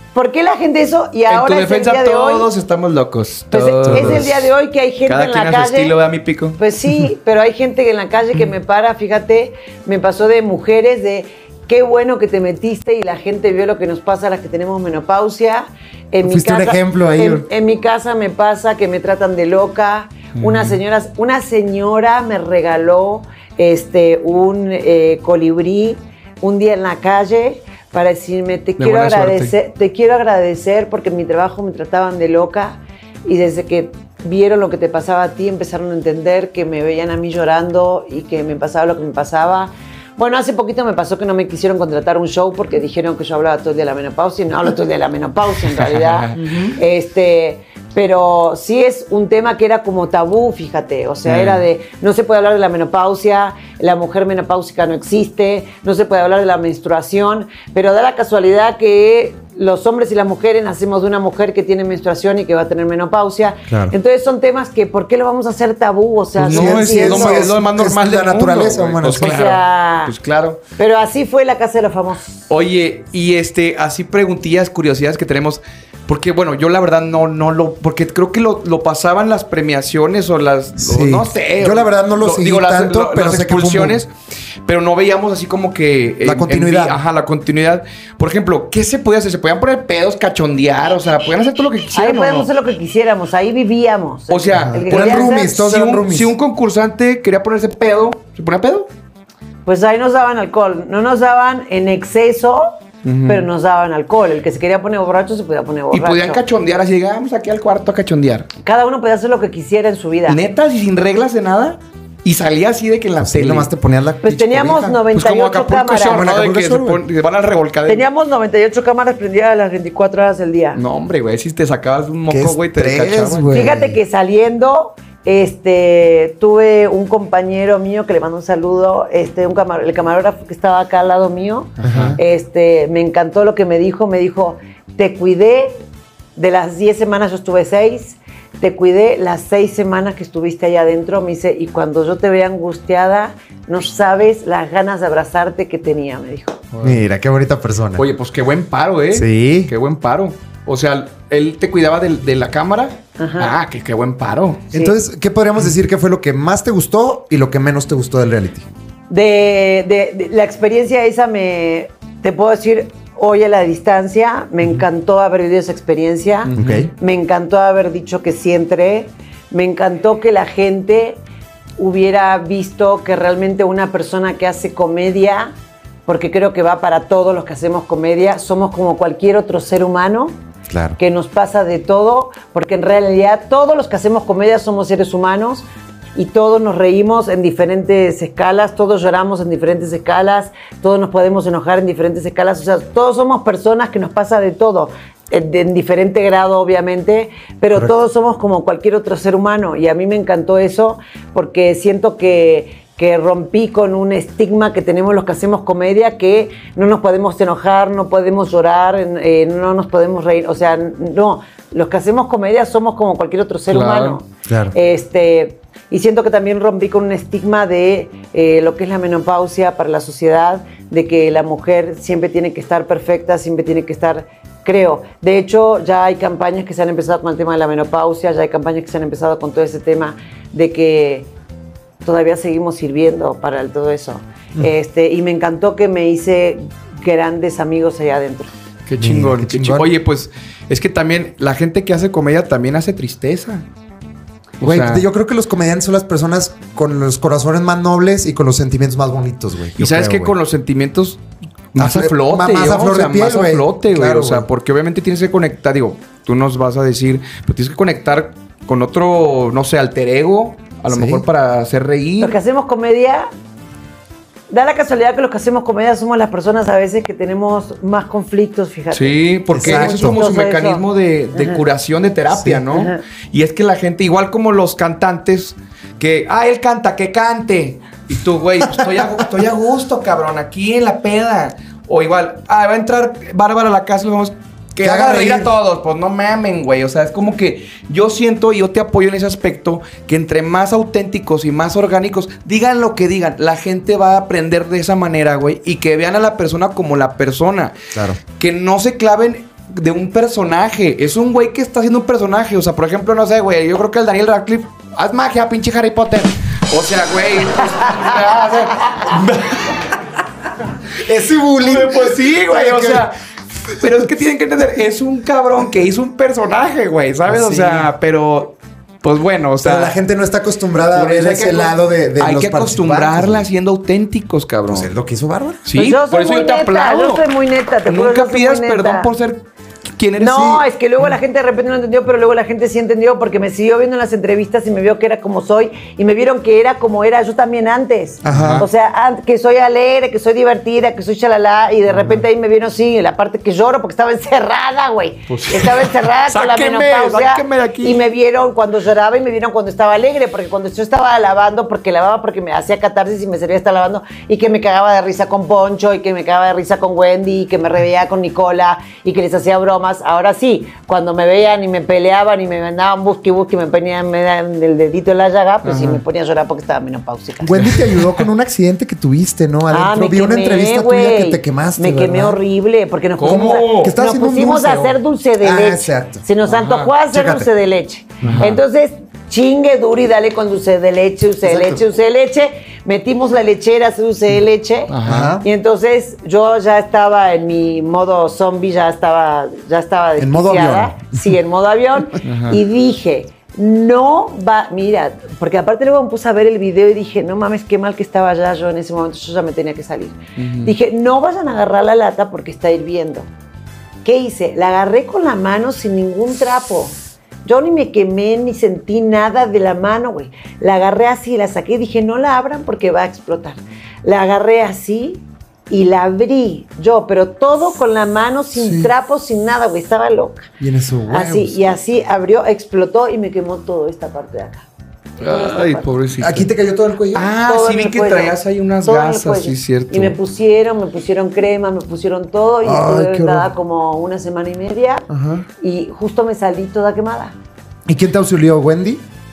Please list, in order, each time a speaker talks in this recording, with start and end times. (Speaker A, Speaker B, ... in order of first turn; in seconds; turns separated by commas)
Speaker A: 0.1-2.5, Speaker B: 1.3-4.5, Speaker A: 3.5-5.9, Speaker C: 3.9-4.3, Speaker B: 5.1-6.6, Speaker A: 6.6-67.5, Speaker C: 16.2-17.5, Speaker B: 20.4-20.8, Speaker B: 28.8-29.5, Speaker B: 45.7-46.5, Speaker C: 46.4-46.7, Speaker B: 51.2-51.6, Speaker C: 63.7-64.0, Speaker B: 66.4-70.6, Speaker C: 66.5-69.5, Speaker A: 69.2-70.1, Speaker A: 70.8-72.4, Speaker B: 72.5-84.1, Speaker C: 80.8-84.0, Speaker B: 84.7-92.5, Speaker C: 86.2-87.0, Speaker A: 91.9-95.5, Speaker B: 94.3-98.9, Speaker C: 94.5-96.3, Speaker A: 99.7-102.7, Speaker B: 103.0-103.5, Speaker A: 103.3-106.4, Speaker B: 105.9-108.5, Speaker A: 108.6-110.4, Speaker B: 110.3-113.7, Speaker C: 113.2-115.0, Speaker A: 114.2-116.3, Speaker B: 115.1-118.0, Speaker C: 116.1-117.0, Speaker A: 117.9-120.8, Speaker B: 120.8-123.6, Speaker C: 122.3-124.0, Speaker A: 123.5-135.8, Speaker B: 131.8-132.2, Speaker C: 131.8-132.2, Speaker A: 136.4-146.6, Speaker B: 146.7-147.0, Speaker C: 146.8-148.1, Speaker B: 148.0-154.6, Speaker C: 149.1-149.7, Speaker A: 153.2-153.6, Speaker C: 154.7-158.7, Speaker A: 159.1-171.2, Speaker B: 166.5-166.9, Speaker C: 166.6-166.9, Speaker A: 171.8-175.5, Speaker A: 176.1-180.4, Speaker C: 180.7-181.0, Speaker A: 181.0-185.7, Speaker A: 186.2-231.3, Speaker B: 213.7-214.2, Speaker C: 214.5-214.7, Speaker A: 232.0-238.5, Speaker B: 238.9-243.7, Speaker C: 239.0-239.9, Speaker B: 244.6-245.0, Speaker C: 244.6-250.3, Speaker B: 249.8-251.2, Speaker B: 251.7-262.4, Speaker C: 251.8-254.5, Speaker C: 260.9-261.2, Speaker A: 262.2-263.3, Speaker A: 264.5-270.8, Speaker B: 268.9-297.8, Speaker C: 269.5-270.2, Speaker A: 271.4-271.6, Speaker C: 272.3-272.6, Speaker A: 272.7-273.0, Speaker C: 284.8-285.5, Speaker B: 298.4-309.8, Speaker C: 311.0-313.1, Speaker B: 311.5-313.2, Speaker B: 313.7-319.9, Speaker C: 317.3-317.9, Speaker C: 319.6-323.5, Speaker B: 320.9-324.9, Speaker C: 324.7-325.8, Speaker B: 325.7-327.2, Speaker A: 325.8-329.1, Speaker B: 327.9-330.6, Speaker A: 330.2-367.7, Speaker C: 330.3-330.6, Speaker C: 338.2-338.7, Speaker B: 338.3-338.7, Speaker B: 345.3-348.0, Speaker C: 365.6-366.0, Speaker C: 367.4-372.4, Speaker A: 369.7-403.3, Speaker B: 373.2-373.9, Speaker C: 373.3-376.2, Speaker B: 376.5-376.9, Speaker C: 377.1-377.5, Speaker B: 378.2-378.6, Speaker C: 381.4-381.8, Speaker B: 384.9-385.4, Speaker C: 385.1-385.5, Speaker C: 390.2-391.4, Speaker B: 392.2-392.6, Speaker B: 400.4-400.7, Speaker A: 404.0-420.5, Speaker C: 418.6-418.9, Speaker C: 420.6-421.7, Speaker A: 421.1-424.7, Speaker B: 425.2-426.5, Speaker A: 425.2-425.9, Speaker C: 426.2-427.3, Speaker B: 427.1-430.2, Speaker A: 427.5-435.1, Speaker C: 432.6-433.5, Speaker C: 435.1-435.5, Speaker A: 435.6-437.4, Speaker C: 437.9-439.0